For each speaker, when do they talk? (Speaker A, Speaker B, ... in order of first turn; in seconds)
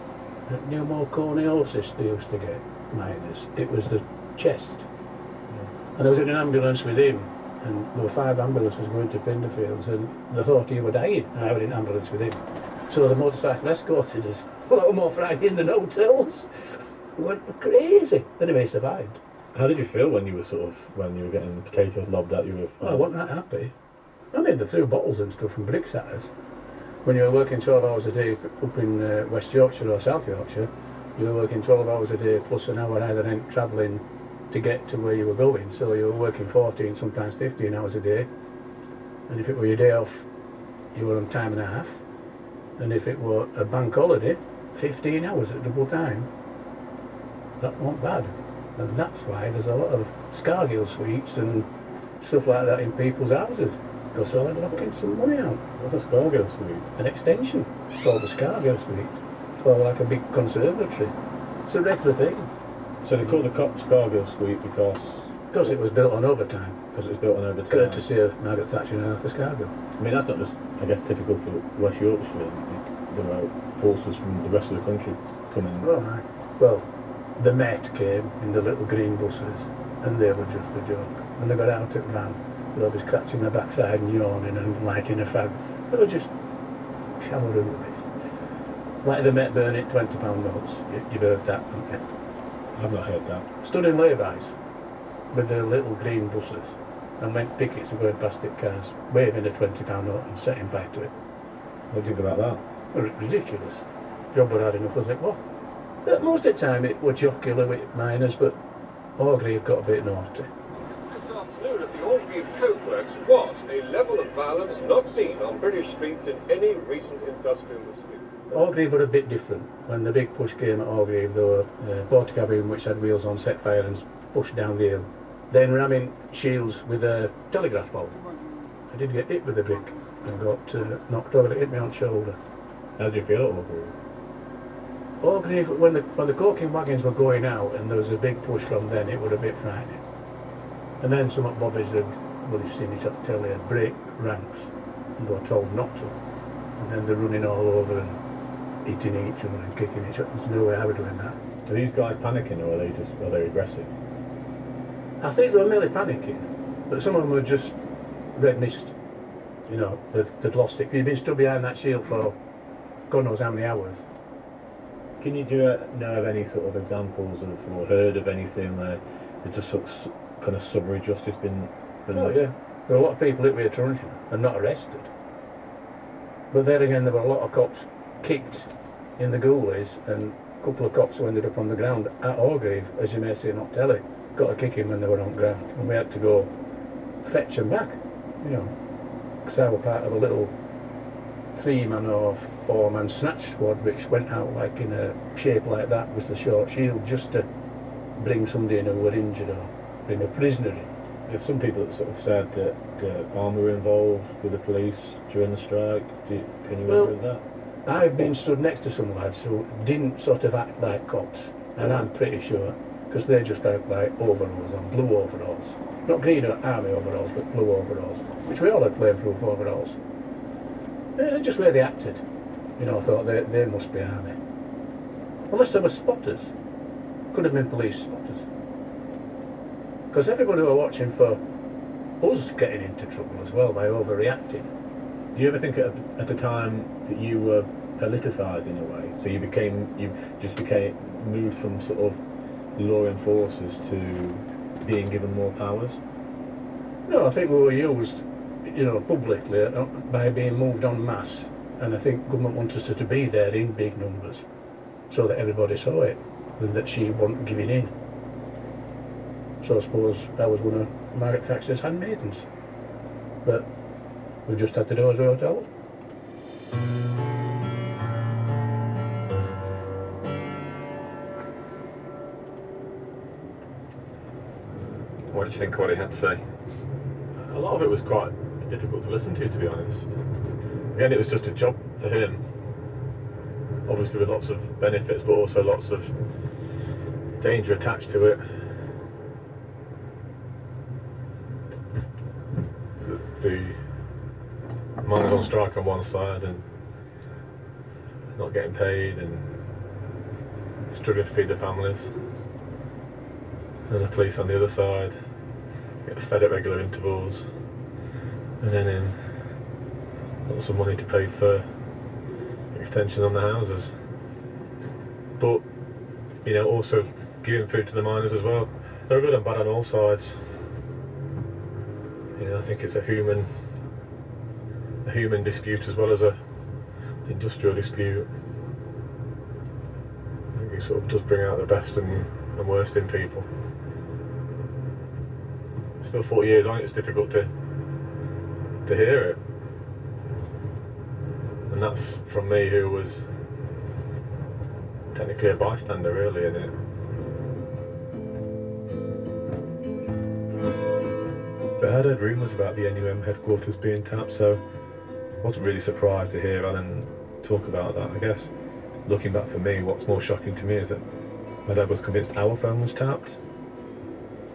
Speaker A: 0.5-4.8, 5.9-16.5, 17.1-19.2, 22.8-23.7, 24.3-26.3, 27.0-38.3, 39.3-40.3, 40.9-42.0, 42.8-46.3, 47.6-51.7, 52.2-55.6, 57.0-61.1, 61.6-62.5, 65.5-66.8, 67.7-69.7, 75.8-86.3, 87.2-88.0, 89.0-92.0, 93.6-94.5, 95.3-101.1, 102.9-105.4, 106.0-108.6, 109.2-110.5, 118.5-128.2, 128.9-132.4, 135.2-140.0, 141.0-146.1, 146.8-148.2, 148.8-151.4, 155.2-157.8, 158.3-158.9, 159.7-162.4, 163.1-164.0, 172.1-175.1, 176.5-186.5, 187.2-188.7, 189.4-190.5, 191.5-197.5, 198.2-200.9, 206.8-207.2, 207.8-220.0, 221.2-222.2, 222.8-224.4, 225.5-226.5, 227.3-228.5, 230.1-231.4, 232.2-234.7, 247.1-254.4, 255.1-257.9, 259.6-262.4, 263.4-263.7, 264.4-265.7
Speaker B: 19.5-23.1, 55.8-56.9, 63.0-65.3, 66.9-68.0, 70.0-75.9, 92.7-93.5, 101.9-102.6, 133.0-133.9, 151.7-153.9, 165.2-172.4, 201.3-207.4, 211.8-212.1, 235.3-242.2, 242.8-246.0, 275.3-276.4, 277.3-280.1, 280.9-282.4, 283.9-286.1, 287.4-288.7, 293.0-293.8, 295.0-296.6, 298.3-299.6, 300.9-302.1, 303.9-305.2, 306.0-307.5, 308.6-309.2, 310.4-311.7, 312.7-313.9, 315.4-315.6, 316.4-320.6, 322.4-323.5, 325.0-326.4, 327.2-328.3, 330.5-333.5, 336.0-337.5, 338.8-339.4, 341.7-343.3, 345.1-346.7, 351.8-354.6, 355.4-358.5, 359.1-361.1, 361.6-363.4
Speaker C: 111.1-118.0